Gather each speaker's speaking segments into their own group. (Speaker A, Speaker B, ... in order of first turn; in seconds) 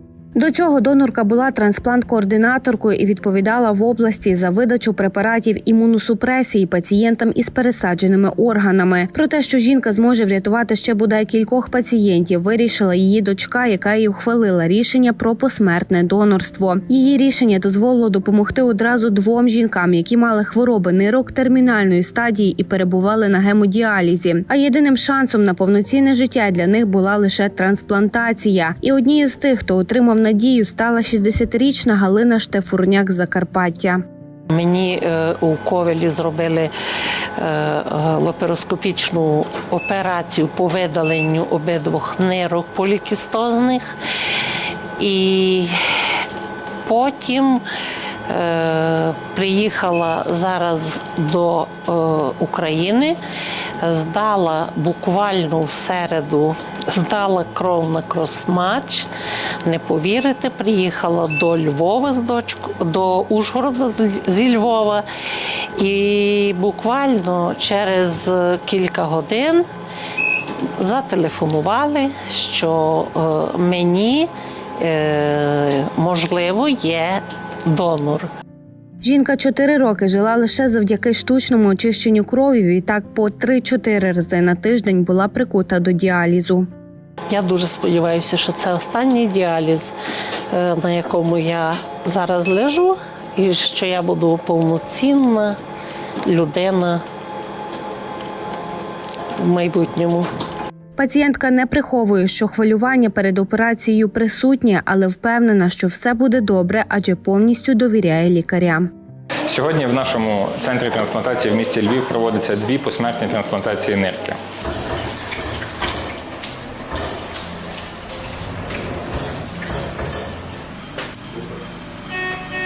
Speaker A: 0.4-34.0, 79.0-86.7, 101.0-108.9
Speaker B: 34.5-36.7, 37.4-43.9, 45.0-45.7, 46.9-47.6, 48.3-53.2, 53.8-59.1, 59.6-65.0, 65.8-69.7, 70.8-78.3, 87.3-89.9, 90.5-95.6, 96.2-97.0, 99.4-100.3
Speaker C: 109.5-114.4